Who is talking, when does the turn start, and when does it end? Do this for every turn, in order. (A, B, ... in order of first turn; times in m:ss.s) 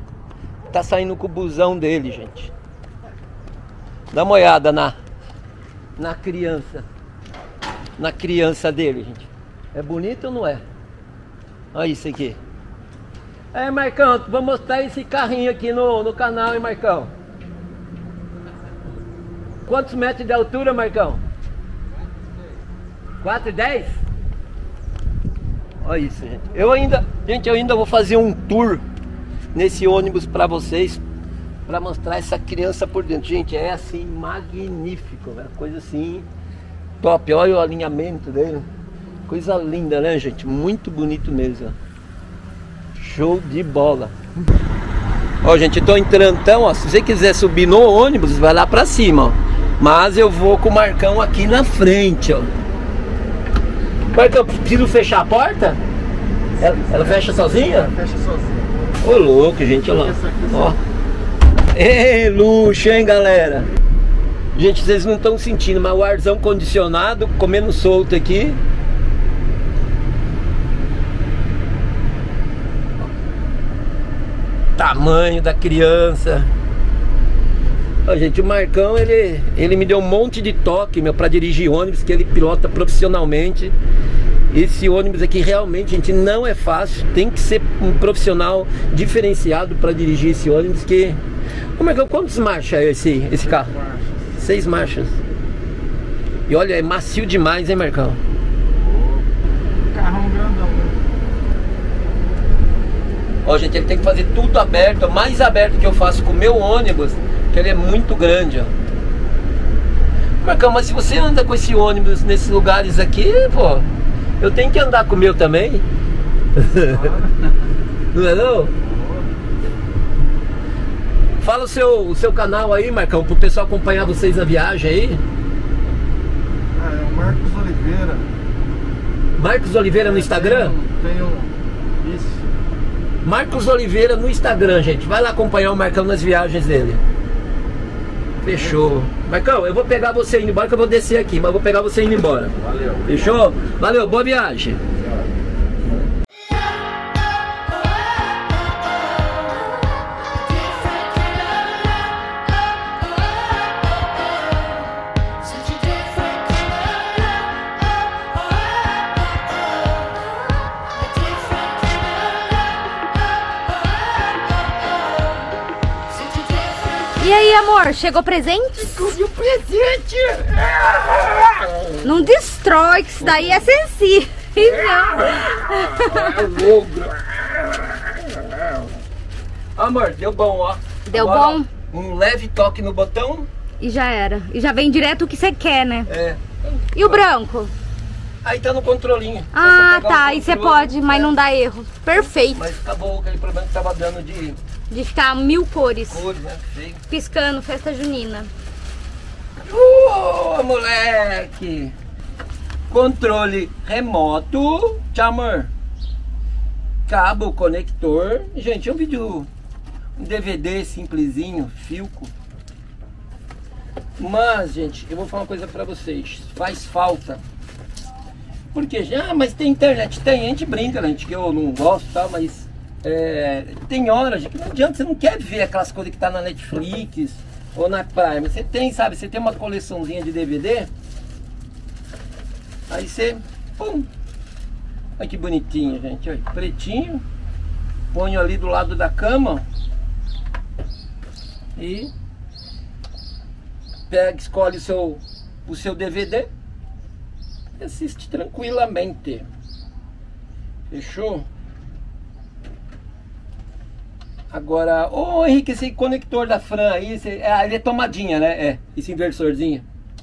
0:00.7-0:02.5 A
0:04.1-0:05.0 A
0:06.0-0:06.9 A
0:08.0-0:10.6 A
0:11.7-0:12.4 A
0:13.5-0:17.1 A
0:19.7-0:21.2 A
0:23.2-0:24.0 A
0:25.8-0:28.8 A
0:29.5-0:31.0 A
0:31.7-0:36.3 A
0:37.0-0:38.7 A
0:39.3-0:41.8 A
0:43.0-0:44.1 A
0:45.4-0:52.5 A
0:54.1-0:55.8 A
0:56.6-0:58.0 A
0:56.8-0:57.2 B
0:58.0-0:58.6 B
0:59.0-1:00.8 A
1:01.7-1:03.7 A
1:04.6-1:08.6 A
1:14.8-1:16.5 A
1:18.0-1:23.8 A
1:24.5-1:31.2 A
1:31.8-1:33.8 A
1:34.4-1:35.2 A
1:36.5-1:38.2 A
1:40.2-1:40.7 C
1:43.4-1:48.7 A
1:50.4-1:53.9 A
1:54.4-1:55.8 A
1:56.6-1:57.2 A
1:58.1-1:58.7 A
2:01.4-2:05.2 A
2:06.8-2:08.2 C
2:09.4-2:10.8 A
2:13.2-2:17.0 A
2:18.4-2:24.8 A
2:22.6-2:23.4 B
2:47.2-2:49.0 D
2:48.8-2:52.1 A
2:52.0-2:56.5 D
2:53.2-2:53.7 A
2:54.6-2:58.8 A
2:59.8-3:03.5 A
3:01.1-3:01.7 D
3:03.8-3:06.1 D
3:06.1-3:07.3 A
3:07.0-3:07.7 D
3:08.4-3:11.3 A
3:09.5-3:12.7 D
3:12.1-3:14.6 A
3:14.9-3:16.2 D
3:16.1-3:17.0 A
3:17.1-3:18.5 D
3:19.6-3:22.0 A
3:22.9-3:25.7 A
3:27.1-3:29.5 A
3:30.2-3:32.3 A
3:34.2-3:37.4 A
3:38.7-3:50.9 A
3:52.9-3:54.1 A
3:55.2-3:57.2 A
3:58.1-3:59.6 A
4:01.8-4:02.1 A
4:04.1-4:06.5 A
4:07.8-4:09.5 A
4:10.9-4:11.5 A
4:14.5-4:19.8 A